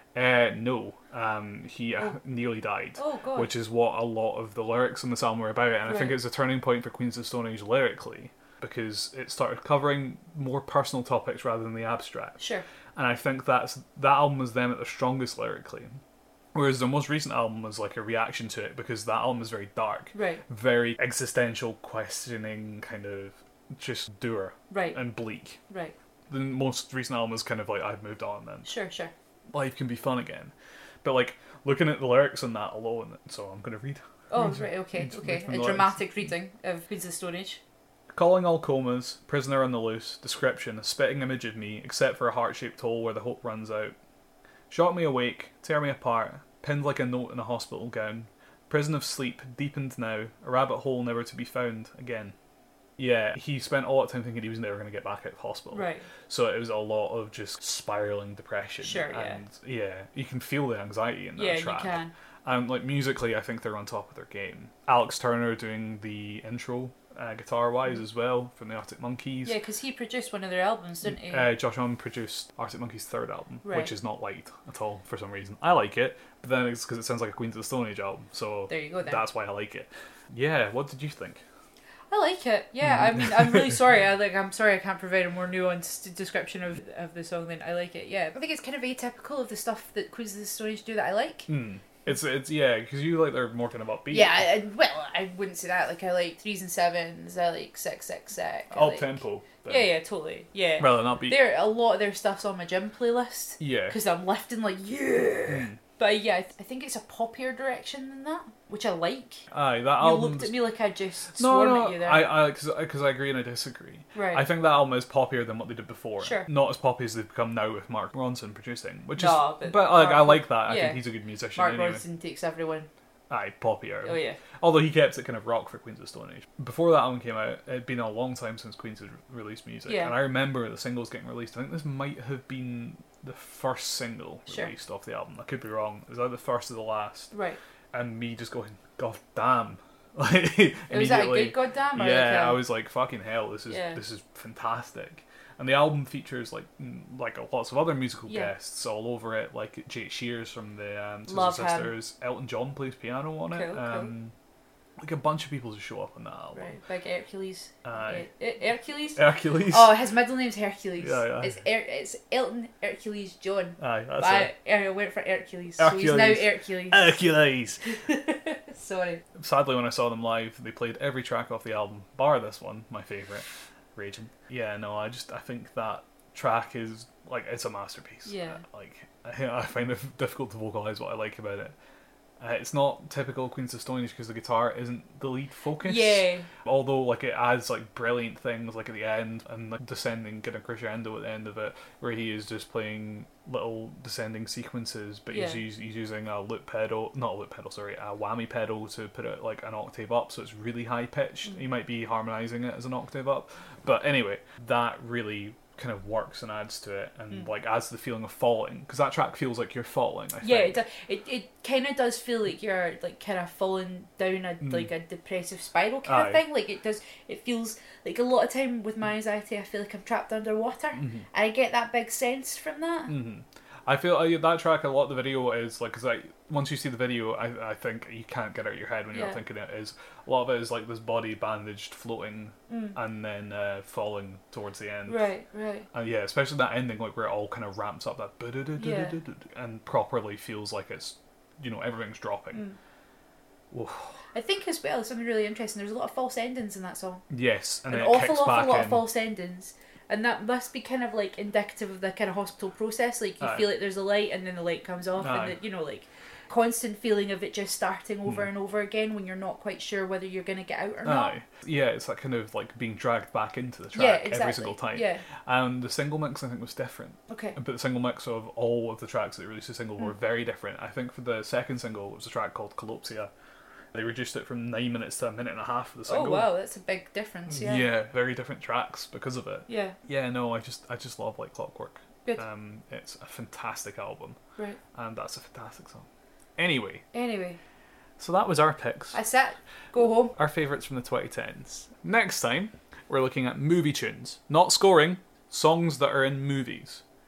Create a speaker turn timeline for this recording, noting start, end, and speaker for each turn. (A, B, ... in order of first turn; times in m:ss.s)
0:00.1-0:12.4 A
0:03.0-0:03.5 B
0:05.8-0:06.2 B
0:12.4-0:12.6 B
0:13.0-0:16.0 A
0:16.5-0:25.6 A
0:20.1-0:20.4 B
0:24.7-0:25.0 B
0:25.7-0:25.9 B
0:26.3-0:28.7 A
0:28.6-0:29.1 B
0:29.5-0:36.1 A
0:34.3-0:37.6 B
0:38.1-0:43.9 A
0:44.7-0:52.3 A
0:53.0-1:09.6 A
0:55.7-0:56.1 B
0:58.8-0:59.4 B
1:01.4-1:02.1 B
1:09.4-1:11.5 B
1:11.0-1:21.4 A
1:13.6-1:13.9 B
1:18.7-1:19.2 B
1:22.1-1:31.5 B
1:22.9-1:23.4 A
1:31.5-1:34.5 A
1:34.1-1:49.4 B
1:38.7-1:39.9 A
1:40.8-1:41.5 A
1:43.6-1:44.0 A
1:45.5-1:45.8 A
1:49.5-1:50.6 A
1:50.0-1:52.3 B
1:51.4-2:02.0 A
1:54.1-1:54.4 B
1:56.2-1:56.5 B
1:59.2-2:02.9 B
2:03.3-2:17.3 A
2:04.0-2:04.4 B
2:09.8-2:10.2 B
2:17.3-2:17.6 B
2:17.9-2:34.3 A
2:20.9-2:22.6 B
2:23.7-2:24.0 B
2:28.2-2:28.5 B
2:31.3-2:31.9 B
2:33.5-2:34.1 B
2:35.0-2:36.7 A
2:36.5-2:47.2 B
2:37.8-2:38.2 A
2:39.2-2:39.9 A
2:41.0-2:41.6 A
2:43.8-2:44.5 A
2:45.8-2:47.8 A
2:47.8-2:49.2 B
2:49.4-3:01.7 A
2:58.2-2:58.6 B
3:02.4-3:30.8 A
3:05.8-3:06.5 B
3:15.3-3:15.6 B
3:30.4-3:43.1 B
3:36.0-3:36.4 A
3:43.1-3:55.3 A
3:49.1-3:49.4 B
3:52.7-3:53.0 B
3:55.1-3:55.9 B
3:55.9-4:02.6 A
3:58.8-3:59.1 B
4:03.7-4:04.2 A
4:04.3-4:07.2 B
4:07.3-4:09.0 A
4:07.9-4:21.4 B
4:13.4-4:13.7 A
4:15.2-4:15.6 A
4:21.0-4:33.3 A
4:23.9-4:25.2 B
4:27.3-4:27.6 B
4:33.9-4:36.5 A
4:36.1-4:37.9 B
4:37.5-4:44.4 A
4:39.7-4:40.0 B
4:44.9-4:46.0 A
4:46.6-4:47.0 A
4:47.1-4:47.6 B
4:48.2-4:49.2 A
4:49.1-4:50.3 B
4:50.3-4:57.0 A